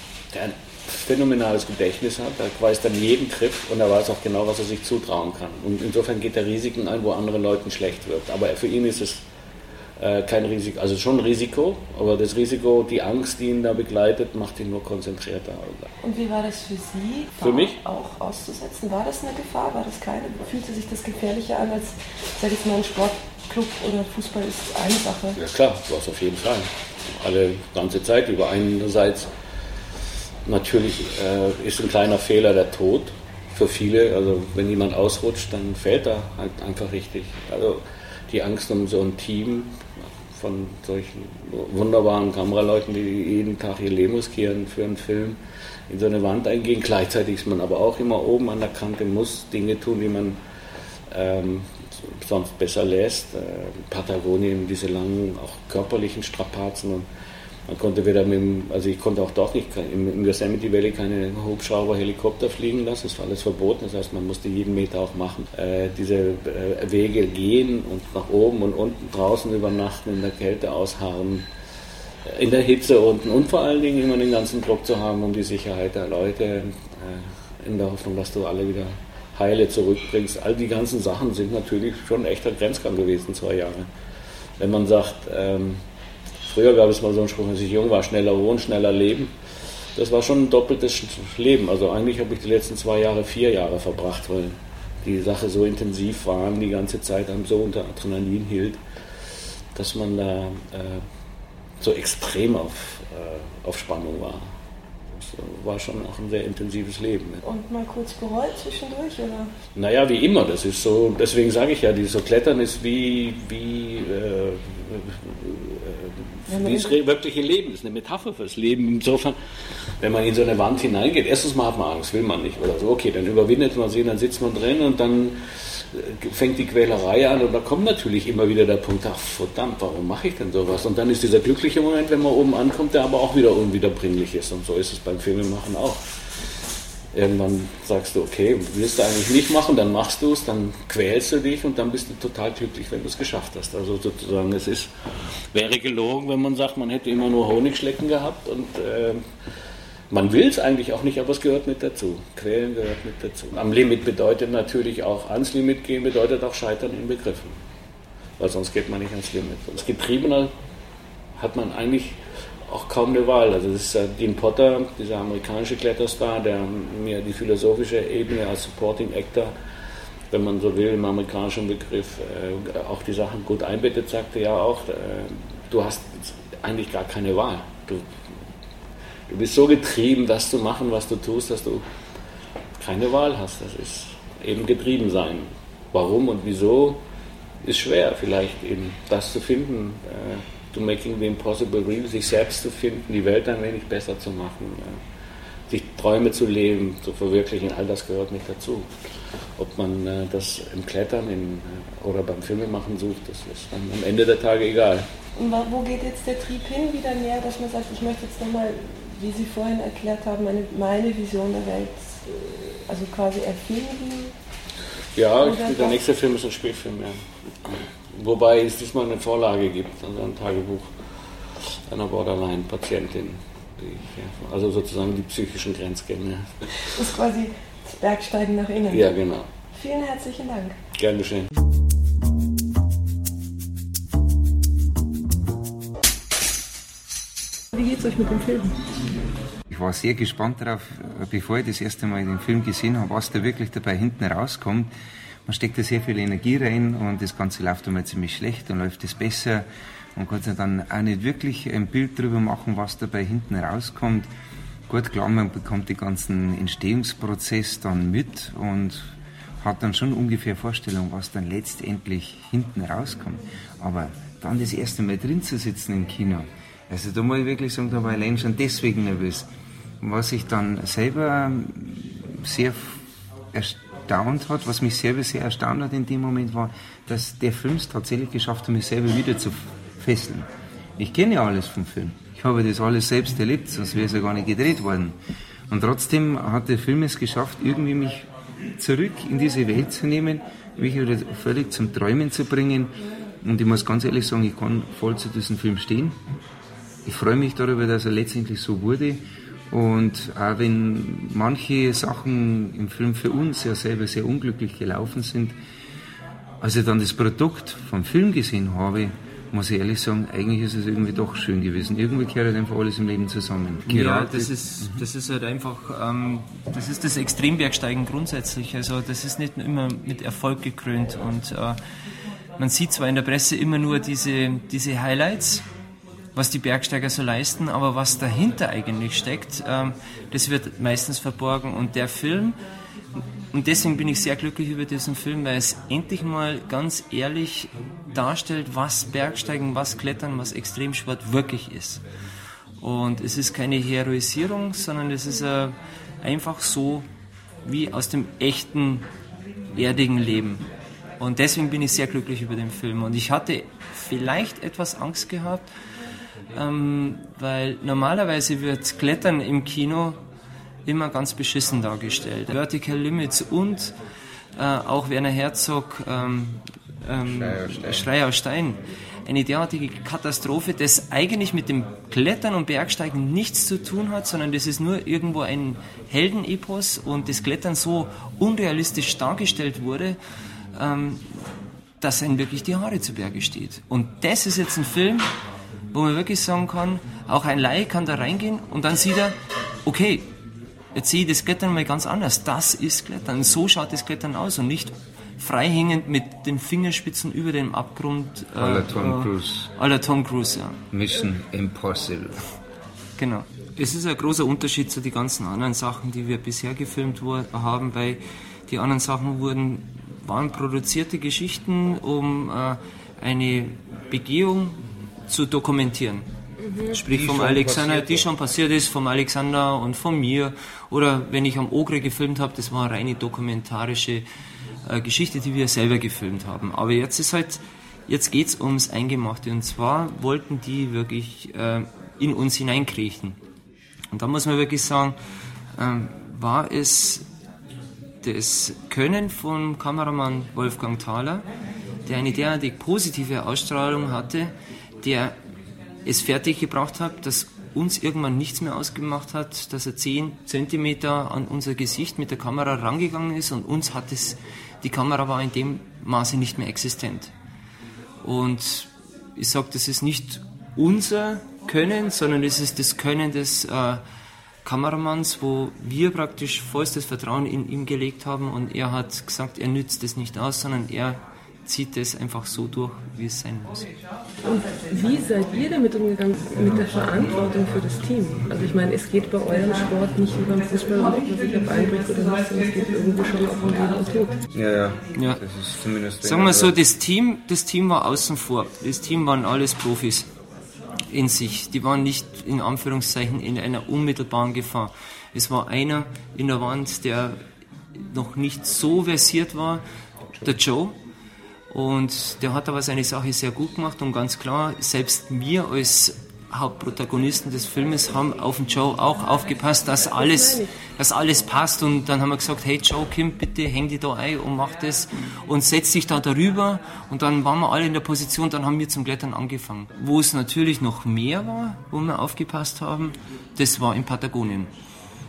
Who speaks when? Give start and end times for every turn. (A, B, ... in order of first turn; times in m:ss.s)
0:00.3-0:09.2 A
0:10.0-0:15.9 A
0:16.0-0:25.4 B
0:17.4-0:17.8 A
0:25.4-0:29.3 A
0:30.4-0:50.4 A
0:51.1-0:57.0 A
0:57.7-1:11.5 A
1:12.2-1:23.9 A
1:24.6-1:25.8 A
1:26.4-1:29.3 A
1:30.0-1:38.8 A
1:39.8-1:41.0 A
1:41.8-1:44.5 A
1:45.1-1:47.4 A
1:47.4-1:49.5 B
1:49.8-1:59.4 A
1:56.5-1:56.9 B
2:00.0-2:16.0 A
2:17.1-2:24.9 A
2:25.5-2:29.2 A
2:30.1-2:37.6 A
2:38.4-2:40.5 A
2:41.4-2:49.5 A
2:50.3-2:58.1 A
2:59.3-3:01.8 A
3:02.8-3:07.0 A
3:07.6-3:15.0 A
3:15.7-3:18.9 A
3:19.6-3:25.1 A
3:25.4-3:34.3 B
3:35.2-3:41.0 A
3:35.4-3:36.0 B
3:41.6-3:47.0 A
3:46.9-3:49.1 B
3:48.9-3:49.5 A
3:49.7-3:50.8 B
3:50.9-3:51.5 A
3:57.7-3:58.8 B
3:59.7-4:04.9 C
4:05.4-4:09.6 C
4:10.2-4:14.3 C
4:14.9-4:29.5 C
4:30.0-4:33.0 C
4:33.5-4:45.2 C
4:45.7-4:48.3 C
4:48.8-4:56.2 C
4:57.0-5:05.5 C
5:06.6-5:15.0 C
5:13.9-5:21.8 D
5:22.6-5:25.6 D
5:26.3-5:32.6 D
5:33.5-5:42.0 D
5:42.8-5:47.1 D
5:47.6-5:49.1 D
5:49.7-5:50.6 D
5:51.2-5:55.6 D
5:56.5-6:00.2 D
6:00.8-6:04.0 D
6:04.6-6:20.2 D
6:07.2-6:08.1 C
6:20.8-6:21.4 D
6:22.0-6:25.3 D
6:25.9-6:29.3 D
6:29.8-6:30.3 D
6:31.0-6:40.8 D
6:38.6-6:39.7 C
6:40.9-6:42.4 C
6:43.2-6:54.8 D
6:55.3-6:56.2 D
6:56.6-6:57.0 B
6:56.9-7:04.2 D
6:57.0-6:58.3 C
7:04.8-7:13.4 D
7:14.1-7:15.2 D
7:15.8-7:17.2 D
7:18.2-7:21.5 D
7:22.0-7:25.3 D
7:26.0-7:37.3 D
7:38.2-7:44.0 D
7:44.6-7:53.9 D
7:54.4-8:04.4 B
8:04.5-8:06.8 C
8:06.2-8:10.3 D
8:11.1-8:17.4 D
8:18.0-8:19.8 D
8:20.4-8:21.0 D
8:21.7-8:44.7 D
8:30.0-8:30.7 B